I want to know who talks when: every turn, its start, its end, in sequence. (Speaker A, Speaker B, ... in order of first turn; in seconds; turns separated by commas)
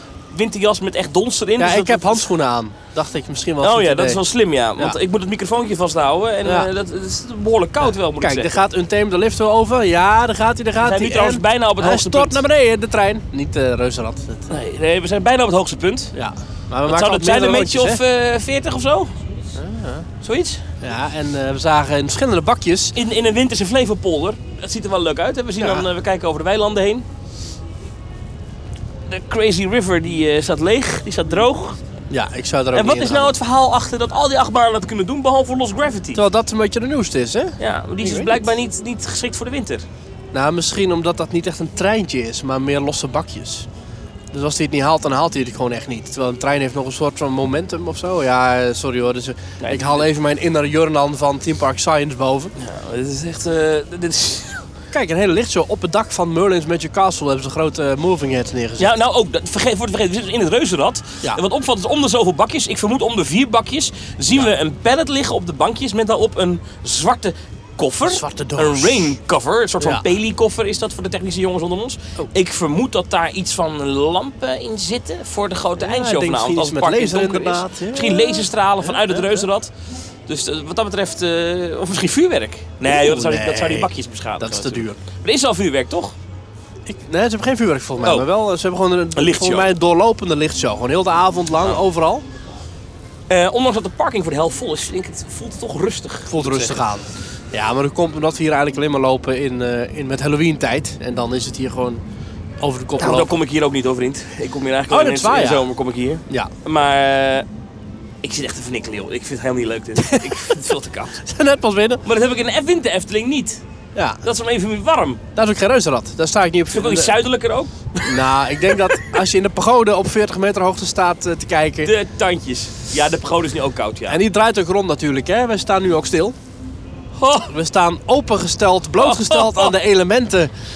Speaker A: 0.3-2.3, Speaker B: 1.6-4.2, Speaker A: 3.6-8.5, Speaker B: 6.4-6.7, Speaker B: 7.9-14.5, Speaker A: 10.8-12.4, Speaker A: 14.5-16.1, Speaker B: 16.1-18.0, Speaker A: 16.9-19.1, Speaker B: 19.5-20.1, Speaker A: 20.2-20.6, Speaker B: 20.8-22.9, Speaker A: 22.9-27.1, Speaker B: 25.6-25.9, Speaker A: 29.1-31.8, Speaker B: 32.1-33.4, Speaker A: 32.7-36.2, Speaker B: 36.1-38.5, Speaker A: 37.6-39.9, Speaker B: 40.3-43.7, Speaker B: 44.3-52.5, Speaker A: 49.6-50.0, Speaker A: 52.6-54.6, Speaker B: 54.9-58.9, Speaker A: 58.8-79.7, Speaker B: 68.1-69.2, Speaker B: 69.8-70.1, Speaker B: 75.8-79.5, Speaker A: 80.3-86.1, Speaker B: 82.8-85.0, Speaker B: 86.8-92.2, Speaker A: 89.1-89.7, Speaker A: 93.3-96.8, Speaker B: 96.3-102.0, Speaker B: 102.6-103.4, Speaker A: 103.0-107.5, Speaker B: 104.9-105.7, Speaker A: 108.2-111.2, Speaker B: 110.0-110.5, Speaker B: 111.2-112.0, Speaker A: 112.0-113.6, Speaker B: 113.9-114.2, Speaker A: 114.2-115.2, Speaker B: 115.3-117.2, Speaker A: 116.7-119.1, Speaker B: 118.0-121.9, Speaker A: 121.8-124.2, Speaker B: 124.1-126.3, Speaker A: 127.2-127.5, Speaker B: 127.5-130.5, Speaker A: 129.0-129.7